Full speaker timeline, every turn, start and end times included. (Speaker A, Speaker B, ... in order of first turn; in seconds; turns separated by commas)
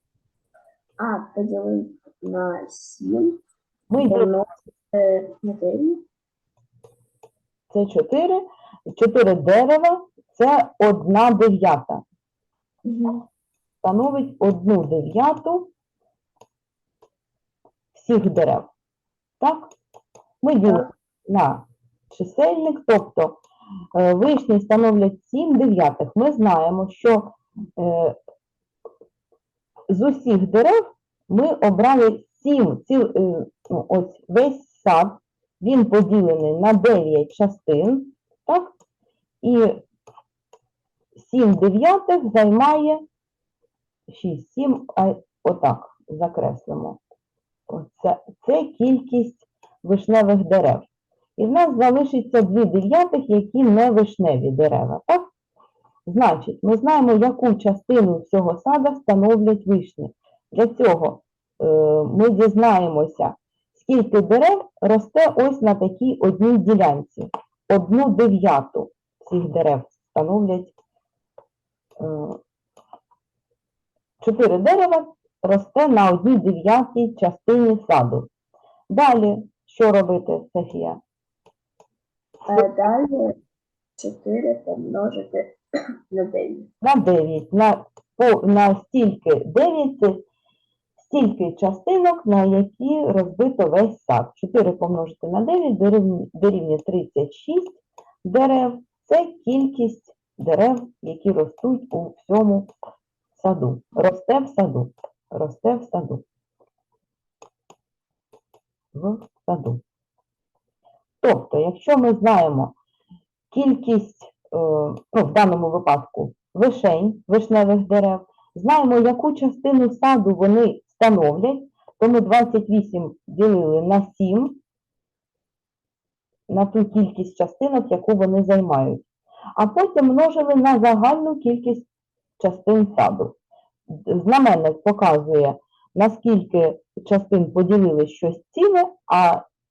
Speaker A: 1.0-3.4, Speaker B: 3.9-4.3, Speaker A: 4.0-6.0, Speaker B: 7.7-12.0, Speaker A: 12.8-13.2, Speaker B: 13.8-15.7, Speaker B: 17.9-18.7, Speaker B: 19.4-19.7, Speaker B: 20.4-23.4, Speaker B: 23.9-28.2, Speaker B: 29.9-38.7, Speaker B: 39.4-39.8, Speaker B: 41.1-43.0, Speaker B: 44.1-47.0, Speaker B: 47.7-55.3, Speaker B: 56.0-70.7, Speaker B: 72.0-72.4, Speaker B: 74.2-78.3, Speaker B: 78.9-81.0, Speaker A: 82.5-83.3, Speaker A: 84.0-86.7, Speaker B: 86.8-90.2, Speaker B: 91.0-102.7, Speaker B: 103.3-106.2, Speaker B: 108.9-109.8, Speaker B: 111.2-112.7, Speaker B: 113.5-124.6, Speaker B: 126.5-131.9, Speaker B: 132.4-133.3, Speaker B: 133.9-139.4